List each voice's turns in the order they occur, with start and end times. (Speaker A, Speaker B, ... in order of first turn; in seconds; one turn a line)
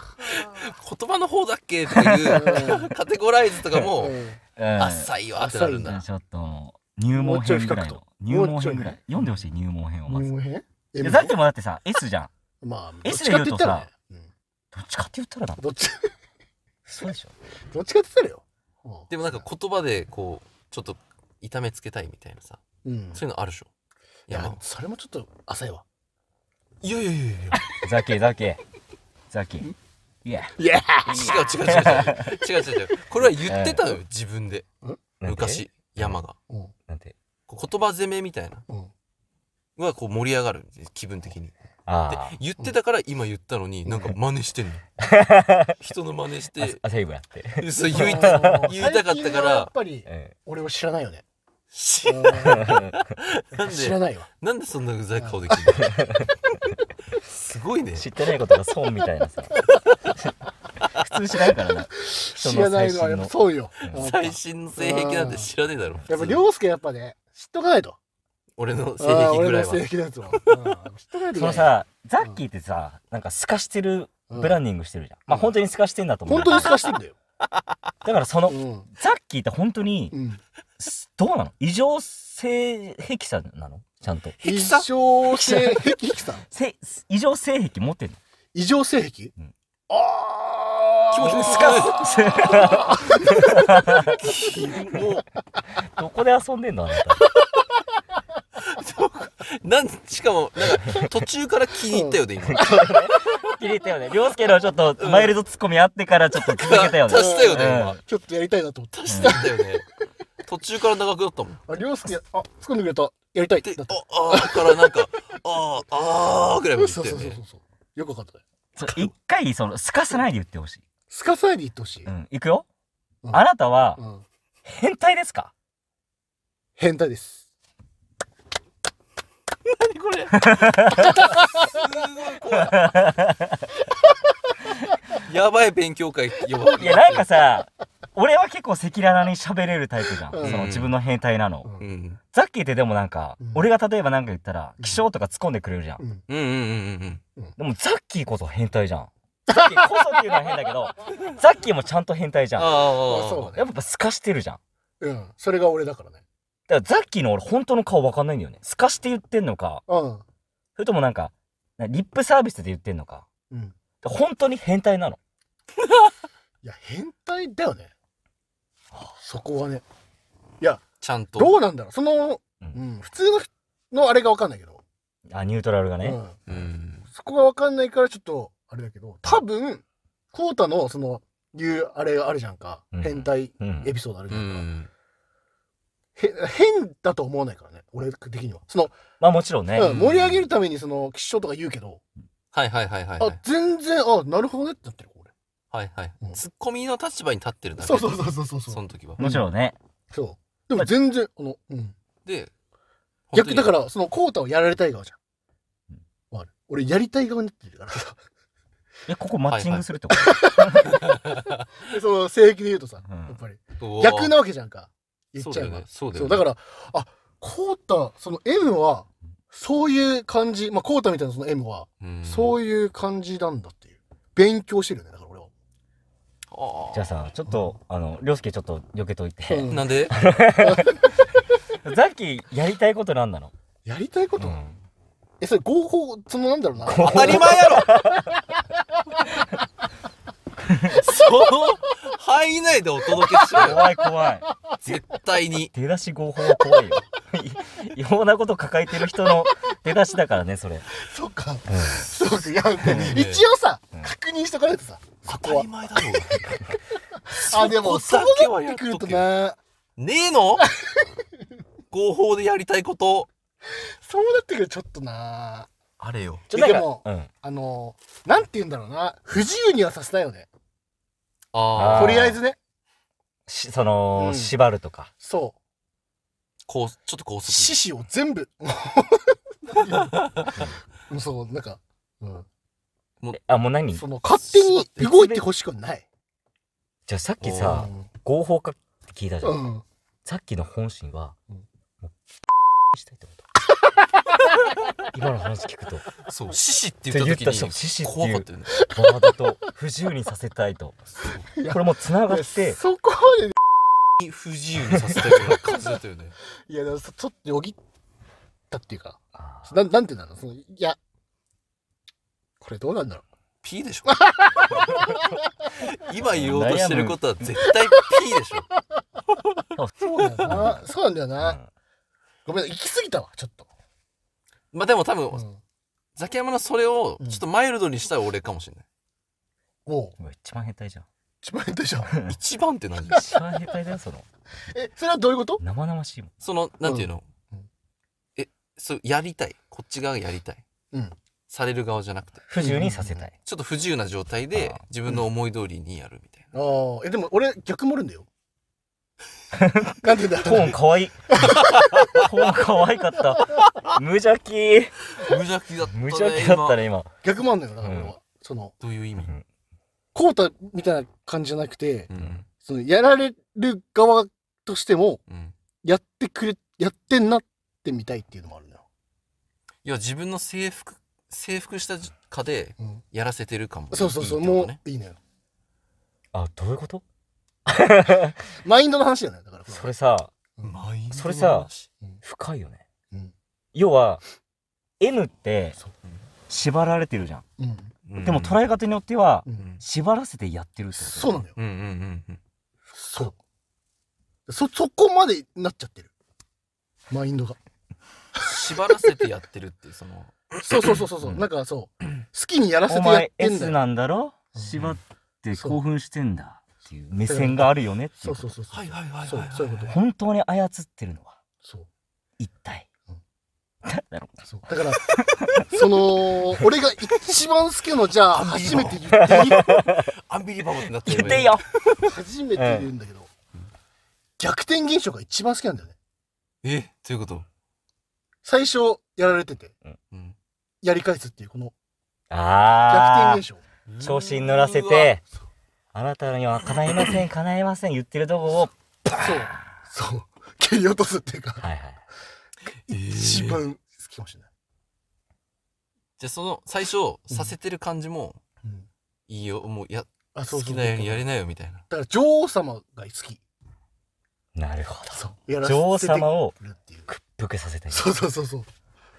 Speaker A: 0.2-0.5
Speaker B: 0.3-4.2
Speaker C: 2.0-2.6
Speaker A: 2.3-2.9
Speaker A: 4.0-4.4
Speaker C: 4.5-5.1
Speaker B: 4.8-6.0
Speaker A: 5.3-6.0
Speaker C: 5.8-10.3
Speaker A: 7.1-9.2
Speaker A: 10.1-11.3
Speaker C: 11.0-12.3
Speaker A: 12.6-14.3
Speaker C: 13.0-13.9
Speaker C: 14.7-15.6
Speaker A: 15.6-16.1
Speaker C: 16.9-17.3
Speaker A: 17.7-19.4
Speaker B: 19.1-22.6
Speaker A: 22.8-23.2
Speaker B: 23.1-23.7
Speaker B: 24.3-24.6
Speaker A: 24.3-25.8
Speaker B: 26.8-27.6
Speaker C: 27.7-28.6
Speaker C: 29.3-29.7
Speaker C: 30.2-32.1
Speaker A: 30.6-31.6
Speaker B: 31.1-34.6
Speaker C: 33.5-33.9
Speaker C: 35.2-36.1
Speaker B: 35.2-36.4
Speaker A: 36.5-36.7
Speaker C: 36.9-37.1
Speaker B: 37.5-38.6
Speaker B: 39.8-41.5
Speaker C: 41.9-42.4
Speaker B: 42.1-44.8
Speaker C: 45.0-45.8
Speaker B: 45.8-46.8
Speaker C: 46.6-48.7
Speaker B: 47.6-49.7
Speaker A: 47.8-51.2
Speaker C: 50.0-50.3
Speaker B: 51.7-56.6
Speaker A: 52.0-52.6
Speaker C: 52.5-52.9
Speaker A: 53.6-54.3
Speaker A: 55.2-55.8
Speaker C: 55.8-56.3
Speaker B: 57.1-58.1
Speaker C: 58.0-59.7
Speaker C: 61.0-63.3
Speaker A: 62.0-65.5
Speaker B: 63.9-66.4
Speaker A: 66.1-68.0
Speaker B: 68.6-69.9
Speaker A: 69.0-72.4
Speaker C: 71.3-76.8
Speaker A: 74.3-74.6
Speaker A: 75.3-75.5
Speaker A: 76.2-77.1
Speaker C: 78.0-80.2
Speaker A: 78.5-78.9
Speaker A: 80.1-80.4
Speaker C: 80.8-84.4
Speaker B: 84.4-84.9
Speaker A: 84.4-86.4
Speaker C: 85.3-88.2
Speaker A: 88.5-89.3
Speaker A: 89.9-94.6
Speaker B: 91.1-92.8
Speaker C: 91.2-94.1
Speaker B: 94.0-95.2
Speaker C: 95.9-97.2
Speaker B: 98.6-102.7
Speaker A: 101.9-103.4
Speaker C: 102.5-108.0
Speaker B: 105.0-105.3
Speaker B: 106.4-108.0
Speaker A: 107.1-109.6
Speaker B: 108.9-109.9
Speaker C: 109.1-109.3
Speaker B: 110.4-111.6
Speaker A: 111.7-115.1
Speaker B: 113.6-117.4
Speaker A: 116.7-118.4
Speaker C: 118.8-120.8
Speaker B: 118.8-119.1
Speaker A: 121.1-122.1
Speaker C: 122.0-122.7
Speaker C: 123.3-124.0
Speaker A: 124.0-124.2
Speaker C: 124.6-125.5
Speaker A: 126.8-127.5
Speaker B: 129.7-133.1
Speaker C: 132.8-133.6
Speaker B: 135.1-137.3
Speaker C: 136.8-141.7
Speaker A: 140.3-140.6
Speaker B: 140.4-140.9
Speaker B: 141.8-142.2
Speaker C: 142.3-146.0
Speaker A: 143.4-143.7
Speaker B: 146.3-147.2
Speaker C: 147.6-152.8
Speaker A: 149.5-149.8
Speaker B: 152.5-153.6
Speaker A: 152.9-153.6
Speaker C: 153.5-154.6
Speaker A: 155.0-156.2
Speaker C: 156.7-159.8
Speaker A: 159.9-160.2
Speaker C: 160.8-163.2
Speaker A: 163.5-163.8
Speaker C: 164.0-165.2
Speaker A: 166.6-167.9
Speaker A: 169.2-169.8
Speaker B: 171.0-171.6
Speaker A: 171.4-174.8
Speaker C: 175.3-176.7
Speaker A: 176.0-176.4
Speaker B: 176.5-177.1
Speaker A: 177.1-179.8
Speaker A: 180.3-184.7
Speaker C: 182.9-183.9
Speaker B: 184.3-184.9
Speaker A: 186.2-188.9
Speaker C: 189.2-189.9
Speaker A: 189.7-192.0
Speaker B: 189.8-190.5
Speaker B: 192.5-193.4
Speaker A: 193.2-195.3
Speaker B: 195.7-199.2
Speaker A: 197.8-199.5
Speaker C: 199.2-199.8
Speaker A: 200.1-201.9
Speaker B: 202.2-202.5
Speaker B: 203.3-203.8
Speaker A: 203.3-205.2
Speaker A: 206.3-208.2
Speaker C: 209.1-211.0
Speaker B: 209.5-209.8
Speaker A: 210.1-225.5
Speaker B: 210.9-211.4
Speaker C: 213.1-213.4
Speaker B: 213.8-214.4
Speaker B: 215.4-216.4
Speaker B: 222.0-222.6
Speaker B: 226.5-227.2
Speaker C: 226.9-231.0
Speaker A: 229.5-229.9
Speaker B: 229.7-230.1
Speaker A: 230.6-230.9
Speaker C: 231.8-233.5
Speaker A: 233.8-234.6
Speaker C: 234.4-234.8
Speaker A: 235.4-238.0
Speaker C: 236.8-238.3
Speaker B: 237.0-237.9
Speaker B: 240.8-243.9
Speaker C: 243.6-244.4
Speaker B: 244.8-245.7
Speaker C: 245.7-250.9
Speaker A: 246.5-246.9
Speaker A: 250.9-256.4
Speaker C: 251.7-252.1
Speaker B: 252.8-253.4
Speaker C: 252.8-253.2
Speaker B: 255.3-256.6
Speaker A: 257.1-259.6
Speaker B: 257.3-259.3
Speaker B: 260.0-260.7
Speaker A: 260.6-261.2
Speaker B: 261.9-263.3
Speaker A: 263.7-265.7
Speaker B: 266.0-266.5
Speaker C: 266.5-267.3
Speaker A: 266.5-270.5
Speaker B: 271.5-272.4
Speaker C: 271.7-272.4
Speaker A: 271.9-272.6
Speaker C: 273.5-275.1
Speaker A: 274.1-274.5
Speaker A: 275.2-275.6
Speaker B: 276.7-277.8
Speaker A: 277.5-282.4
Speaker C: 283.3-284.1
Speaker A: 283.9-286.1
Speaker B: 284.4-284.9
Speaker C: 284.9-285.4
Speaker C: 287.1-289.6
Speaker B: 287.4-287.9
Speaker A: 287.7-288.1
Speaker A: 289.4-289.8
Speaker C: 290.2-291.3
Speaker C: 292.9-293.4
Speaker C: 295.1-296.1
Speaker B: 296.2-298.9
Speaker C: 297.1-301.0
Speaker A: 298.8-299.3
Speaker A: 301.5-303.6
Speaker C: 301.6-302.8
Speaker B: 304.2-306.4
Speaker A: 305.3-305.6
Speaker A: 306.5-307.8
Speaker A: 308.7-311.0
Speaker C: 309.4-309.8
Speaker A: 312.6-313.2
Speaker B: 313.6-314.3
Speaker A: 314.1-315.3
Speaker C: 314.7-315.2
Speaker B: 315.8-318.7
Speaker C: 316.3-317.6
Speaker C: 319.7-320.8
Speaker A: 320.0-321.6
Speaker C: 321.4-321.7
Speaker A: 322.4-323.7
Speaker B: 324.7-325.4
Speaker A: 325.3-325.6
Speaker B: 326.1-328.8
Speaker A: 329.9-330.1
Speaker C: 330.2-331.1
Speaker A: 331.4-332.1
Speaker B: 332.3-333.3
Speaker C: 333.1-334.2
Speaker A: 333.1-333.7
Speaker A: 334.7-335.6
Speaker C: 335.6-336.3
Speaker B: 336.4-337.3
Speaker A: 336.8-337.7
Speaker B: 338.4-340.6
Speaker B: 341.5-342.4
Speaker C: 342.5-343.3
Speaker A: 342.6-343.3
Speaker B: 343.4-346.5
Speaker C: 344.5-344.8
Speaker A: 346.5-348.3
Speaker C: 349.5-355.1
Speaker A: 350.0-351.6
Speaker B: 351.9-352.2
Speaker B: 355.1-356.8
Speaker C: 355.9-357.1
Speaker A: 357.2-358.7
Speaker C: 357.8-358.1
Speaker B: 358.8-359.3
Speaker A: 360.1-362.1
Speaker B: 362.1-362.5
Speaker A: 362.6-365.2
Speaker B: 365.3-365.5
Speaker A: 365.8-368.8
Speaker B: 369.8-374.8
Speaker A: 373.9-375.2
Speaker C: 376.3-377.0
Speaker C: 377.6-378.5
Speaker A: 378.5-379.9
Speaker C: 379.7-380.3
Speaker B: 380.6-381.9
Speaker C: 381.1-381.7
Speaker C: 382.2-382.8
Speaker C: 383.7-384.2
Speaker C: 385.0-385.8
Speaker C: 386.5-387.4
Speaker A: 387.6-387.9
Speaker B: 388.1-388.6
Speaker C: 388.2-391.4
Speaker A: 390.9-391.5
Speaker B: 391.6-392.4
Speaker A: 392.9-393.4
Speaker A: 394.5-396.1
Speaker A: 397.1-397.6
Speaker B: 398.4-400.4
Speaker A: 400.6-403.8
Speaker C: 402.9-408.5
Speaker A: 405.5-405.8
Speaker A: 407.2-410.0
Speaker B: 408.7-409.9
Speaker C: 409.9-411.4
Speaker A: 411.6-411.9
Speaker C: 412.4-412.9
Speaker C: 413.9-414.4
Speaker A: 414.4-415.0
Speaker C: 415.0-415.6
Speaker A: 415.6-419.9
Speaker B: 418.3-419.1
Speaker C: 419.1-420.1
Speaker B: 419.9-422.0
Speaker C: 421.0-421.6
Speaker A: 422.0-423.3
Speaker C: 422.6-422.9
Speaker A: 424.4-425.9
Speaker B: 426.6-427.5
Speaker A: 428.4-429.7
Speaker A: 430.8-431.7
Speaker C: 432.3-433.4
Speaker A: 432.9-433.6
Speaker B: 433.9-435.1
Speaker C: 434.0-435.2
Speaker C: 435.9-439.7
Speaker A: 439.2-441.6
Speaker C: 441.6-442.0
Speaker B: 442.8-443.6
Speaker A: 442.9-444.5
Speaker B: 446.2-448.4
Speaker B: 449.3-451.8
Speaker A: 450.3-451.3
Speaker A: 451.9-453.4
Speaker C: 454.5-458.1
Speaker A: 455.1-457.1
Speaker A: 457.9-458.7